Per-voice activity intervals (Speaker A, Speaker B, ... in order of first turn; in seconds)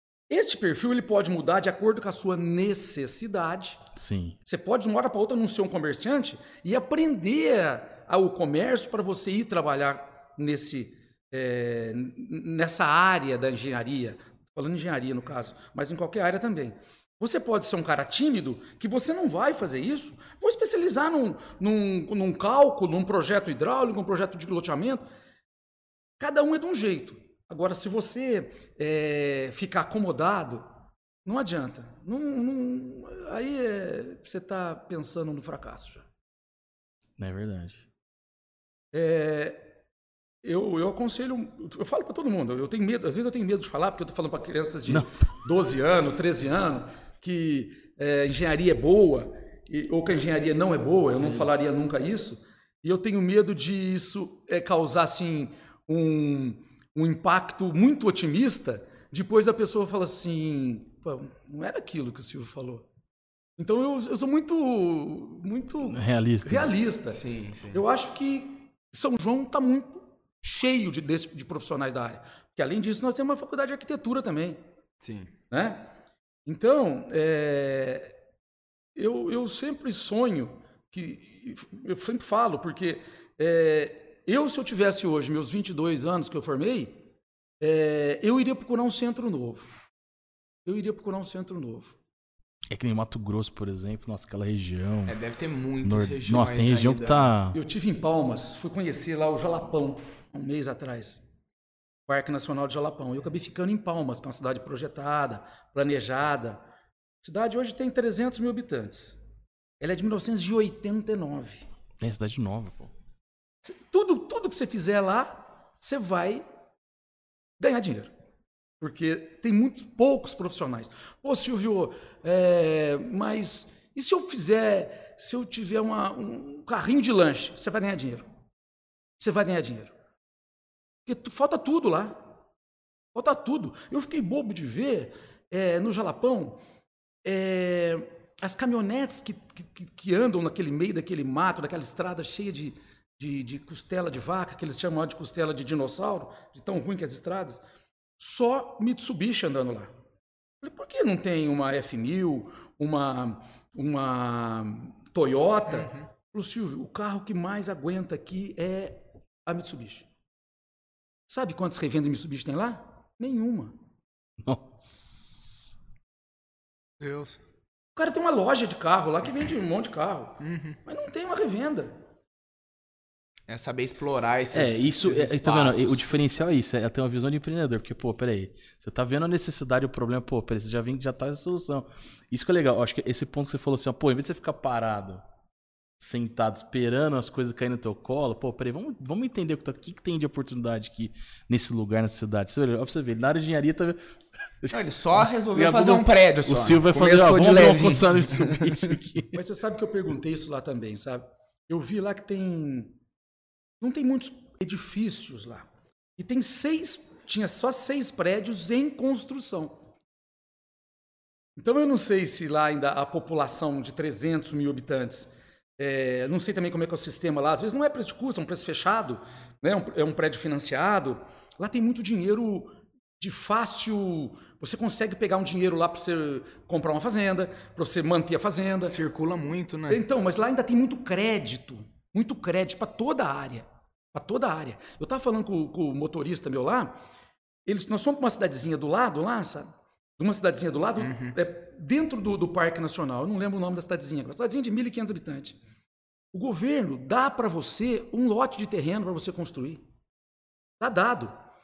Speaker A: 0.3-3.8, 4.5-25.1, 26.2-30.7, 31.2-36.1, 38.9-39.7, 40.4-62.9, 63.6-74.6, 75.5-75.9, 76.5-78.1, 79.0-87.0, 87.6-89.7, 90.7-92.0, 97.5-101.2, 102.1-106.6, 107.2-109.2, 109.8-111.7, 113.7-116.5, 117.6-118.1, 118.8-128.3, 129.2-129.9, 131.1-132.3, 133.1-136.6, 137.2-147.6, 148.2-149.9, 150.6-160.1, 161.3-163.8, 168.0-172.0, 199.3-202.9, 203.8-205.7, 206.2-209.8, 211.6-229.0, 229.9-237.0, 237.7-245.6, 246.3-249.8, 250.8-251.3
Speaker B: 4.0-4.4, 37.2-37.8, 51.1-51.5, 65.9-66.7, 92.7-95.2, 95.8-97.6, 112.0-112.9, 164.4-165.7, 174.5-185.2, 186.0-194.0, 194.6-199.4
Speaker C: 67.2-67.8, 75.0-75.3, 95.1-97.3, 167.0-167.4, 170.4-170.8, 173.5-176.0, 194.7-199.0, 228.9-230.0, 241.0-241.3